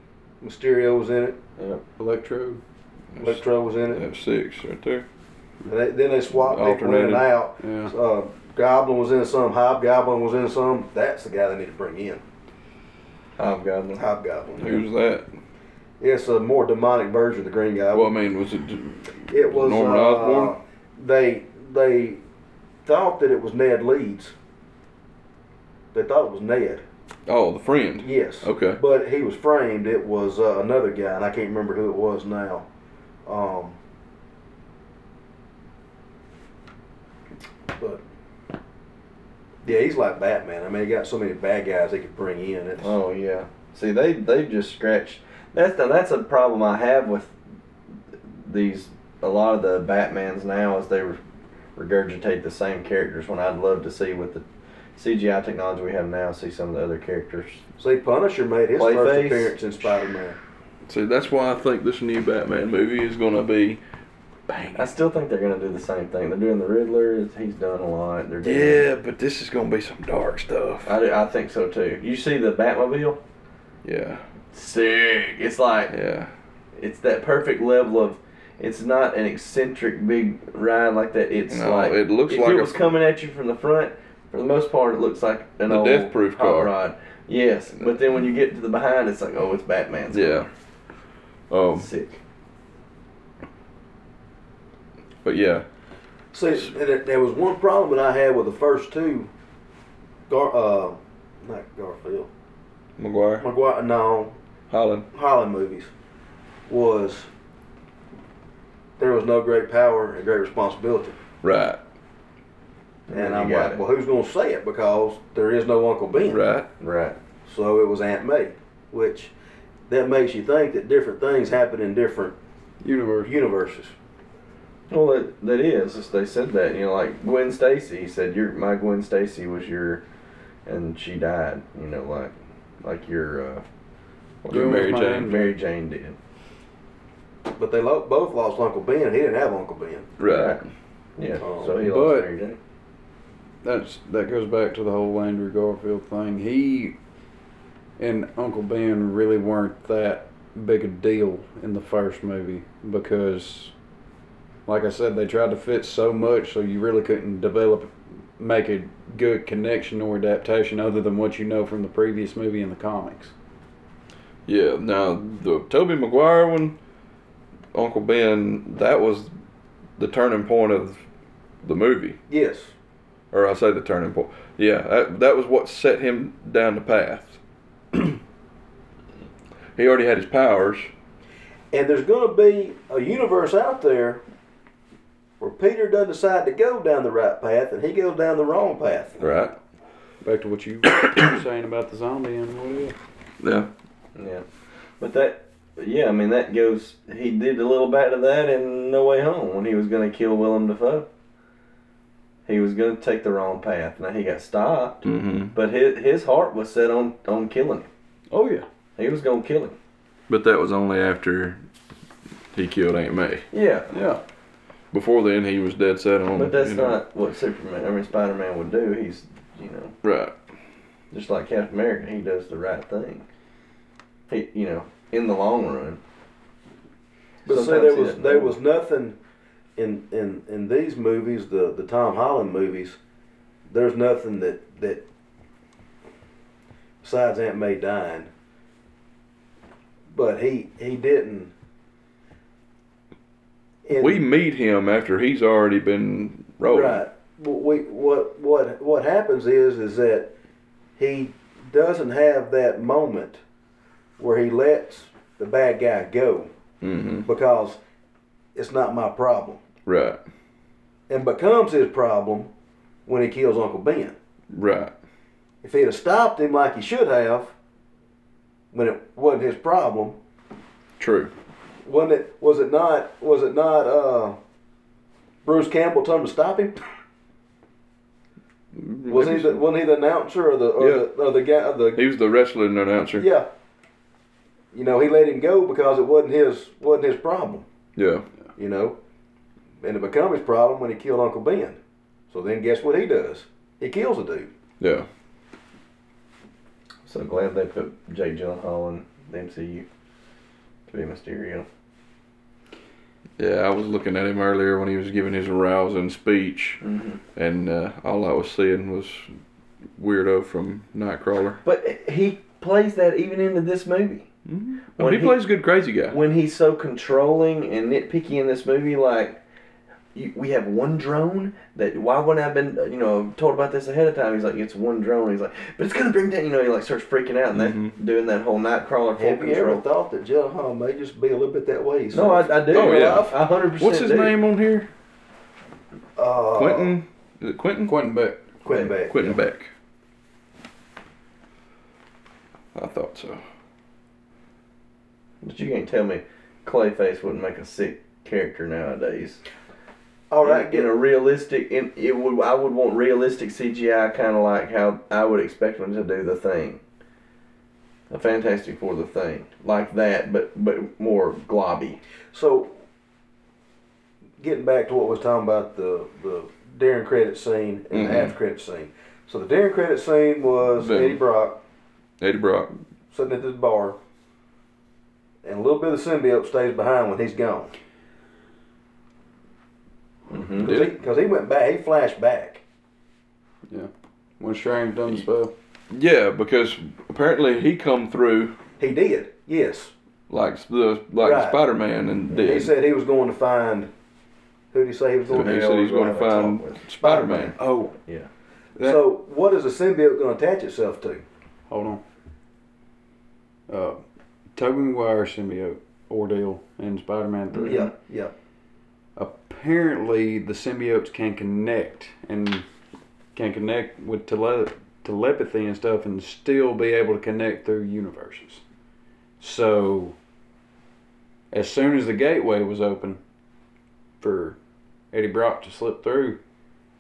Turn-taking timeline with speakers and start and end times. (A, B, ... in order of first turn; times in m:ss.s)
0:00.4-0:01.4 A
0:02.0-0:02.6 B
0:03.1-0:05.0 C
0:03.2-0:04.0 A
0:05.6-0:12.2 A
0:06.3-0:07.3 C
0:07.6-0:07.9 B
0:13.4-0:14.0 D
0:13.9-0:14.8 A
0:14.6-0:15.3 C
0:16.0-0:18.1 A
0:17.9-0:20.5 C
0:19.3-0:22.2 A
0:22.8-0:24.3 A
0:25.9-0:26.8 A
0:27.3-0:28.8 C
0:28.0-0:32.6 A
0:33.2-0:33.8 A
0:37.7-0:38.0 A
0:39.6-0:42.9 A
0:42.8-0:47.3 D
0:48.3-0:51.2 D
0:51.8-0:54.4 D
0:55.0-0:57.6 D
0:57.8-1:00.4 A
0:58.7-1:00.0 D
1:00.8-1:03.8 C
1:04.5-1:04.9 C
1:04.7-1:08.8 D
1:08.4-1:10.9 C
1:10.8-1:13.2 D
1:13.8-1:14.2 C
1:14.5-1:16.0 D
1:15.9-1:16.3 C
1:16.8-1:30.5 D
1:21.5-1:22.9 C
1:25.7-1:26.7 C
1:30.1-1:30.5 C
1:31.5-1:31.9 C
1:31.8-1:32.2 D
1:35.2-1:35.6 C
1:36.3-1:39.3 A
1:40.3-1:42.3 A
1:43.0-1:43.4 C
1:43.4-1:44.4 A
1:44.7-1:45.0 C
1:45.1-1:45.9 A
1:46.7-1:47.3 A
1:49.0-1:51.2 A
1:51.4-1:51.8 C
1:53.1-1:53.8 D
1:53.1-1:56.4 A
1:56.2-1:56.7 C
1:56.8-1:57.2 D
1:57.4-1:59.3 A
1:59.9-2:02.4 A
2:02.8-2:03.3 B
2:03.2-2:03.9 A
2:04.9-2:10.0 D
2:10.6-2:13.6 D
2:14.4-2:16.2 D
2:14.4-2:15.4 C
2:14.5-2:15.5 B
2:17.6-2:20.1 A
2:20.2-2:20.7 C
2:20.2-2:20.6 D
2:21.2-2:22.6 D
2:21.4-2:21.8 A
2:21.8-2:22.3 B
2:23.6-2:27.0 B
2:28.0-2:33.7 B
2:34.7-2:43.3 B
2:44.4-2:46.8 C
2:47.7-2:49.3 C
2:50.0-2:51.0 C
2:51.6-2:52.2 C
2:52.3-2:52.7 A
2:53.3-2:57.4 C
2:59.8-3:00.9 C
3:01.7-3:04.2 A
3:05.4-3:09.2 A
3:09.2-3:09.5 C
3:10.2-3:12.9 B
3:13.4-3:13.7 C
3:14.1-3:14.4 D
3:15.0-3:21.1 D
3:22.4-3:27.9 D
3:25.0-3:25.5 C
3:28.3-3:28.6 B
3:29.0-3:29.8 D
3:30.3-3:31.6 C
3:32.5-3:33.4 C
3:33.5-3:33.9 D
3:33.9-3:34.2 B
3:34.9-3:37.0 C
3:36.3-3:39.9 D
3:40.0-3:40.4 C
3:41.1-3:43.2 D
3:44.3-3:46.0 D
3:47.4-3:48.5 D
3:47.4-3:49.2 A
3:49.8-3:53.0 A
3:53.7-3:55.0 A
3:57.0-3:58.3 A
4:00.1-4:01.5 A
4:03.8-4:04.2 A
4:04.0-4:07.0 C
4:06.7-4:10.3 A
4:11.0-4:13.4 A
4:14.2-4:16.5 A
4:16.8-4:17.3 C
4:17.2-4:17.8 A
4:18.5-4:19.6 A
4:19.8-4:20.2 C
4:21.1-4:22.5 A
4:23.0-4:24.1 A
4:24.5-4:24.9 C
4:25.6-4:27.5 A
4:28.7-4:30.2 A
4:31.0-4:31.3 C
4:31.8-4:34.4 A
4:35.4-4:36.8 A
4:38.7-4:39.6 C
4:39.1-4:42.0 A
4:40.8-4:41.1 C
4:41.9-4:43.3 C
4:43.2-4:43.5 A
4:44.7-4:47.6 A
4:48.0-4:48.2 C
4:48.6-4:49.0 A
4:49.8-4:51.8 A
4:52.3-4:54.5 A
4:54.8-4:55.1 C
4:57.0-4:59.8 D
5:00.9-5:01.7 D
5:03.4-5:06.8 C
5:06.8-5:07.2 D
5:07.4-5:09.3 C
5:10.0-5:11.6 C
5:11.6-5:14.3 D
5:14.4-5:16.2 C
5:15.0-5:15.4 D
5:16.1-5:19.4 D
5:20.1-5:29.8 D
5:27.5-5:27.9 C
5:29.2-5:33.3 A
5:32.1-5:34.4 D
5:32.7-5:34.9 C
5:36.2-5:37.0 A
5:36.5-5:38.0 C
5:37.8-5:38.4 B
5:38.6-5:39.4 A
5:38.7-5:39.7 C
5:42.7-5:43.4 C
5:45.4-5:49.4 D
5:50.3-5:50.9 A
5:50.4-5:56.8 D
5:58.1-6:02.0 D
6:02.3-6:02.8 A
6:04.4-6:11.6 A
6:07.9-6:08.3 C
6:10.8-6:11.2 C
6:12.2-6:12.7 C
6:13.1-6:14.0 A
6:15.4-6:17.7 A
6:20.3-6:20.7 D
6:20.6-6:22.6 A
6:20.6-6:21.0 C
6:23.7-6:25.5 B
6:25.9-6:28.6 C
6:28.8-6:29.9 A
6:30.3-6:32.7 C
6:31.2-6:31.6 A
6:32.3-6:33.9 A
6:34.7-6:36.3 A
6:35.3-6:37.6 C
6:35.3-6:37.4 D
6:37.0-6:37.5 A
6:37.6-6:37.9 B
6:38.8-6:41.2 A
6:41.7-6:42.0 B
6:43.7-6:44.0 B
6:44.5-6:47.8 B
6:47.5-6:47.9 D
6:47.6-6:48.3 A
6:49.2-6:52.6 B
6:53.3-6:58.6 B
6:59.4-7:00.2 B
7:01.5-7:03.2 B
7:04.2-7:04.6 B
7:05.1-7:06.4 B